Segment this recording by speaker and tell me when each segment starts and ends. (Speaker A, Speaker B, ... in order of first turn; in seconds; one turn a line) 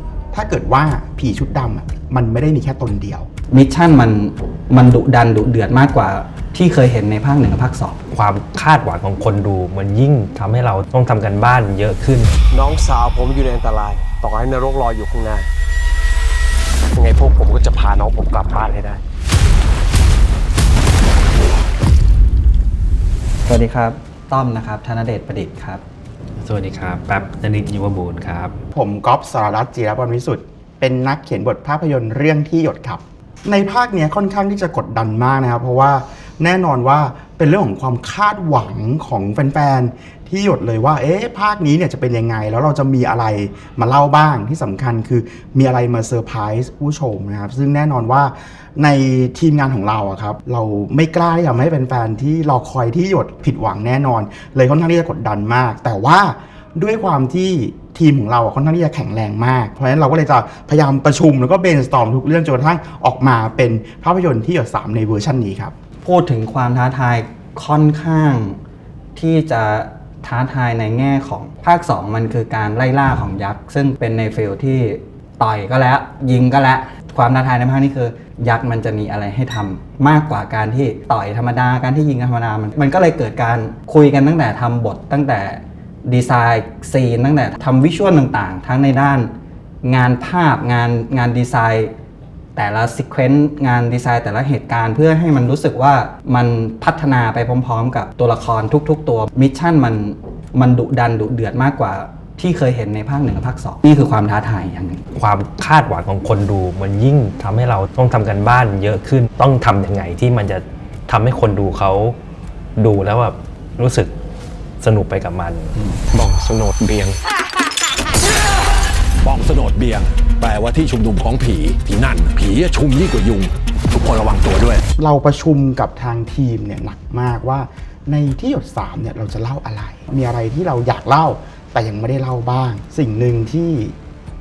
Speaker A: 0.3-3.3
Speaker B: 3.5-8.0
Speaker C: 8.1-12.4
Speaker D: 12.5-15.5
Speaker D: 16.9-19.0
Speaker B: 23.5-25.8
Speaker C: 26.4-28.6
Speaker A: 28.7-65.7
Speaker B: 66.0-68.6
Speaker B: 69.2-89.3
Speaker B: 89.8-91.9
Speaker B: 92.6-105.0
Speaker C: 105.2-112.2
Speaker C: 112.8-114.1
Speaker C: 114.8-115.8
Speaker E: 116.1-117.2
Speaker E: 119.2-124.8
Speaker A: 125.0-133.9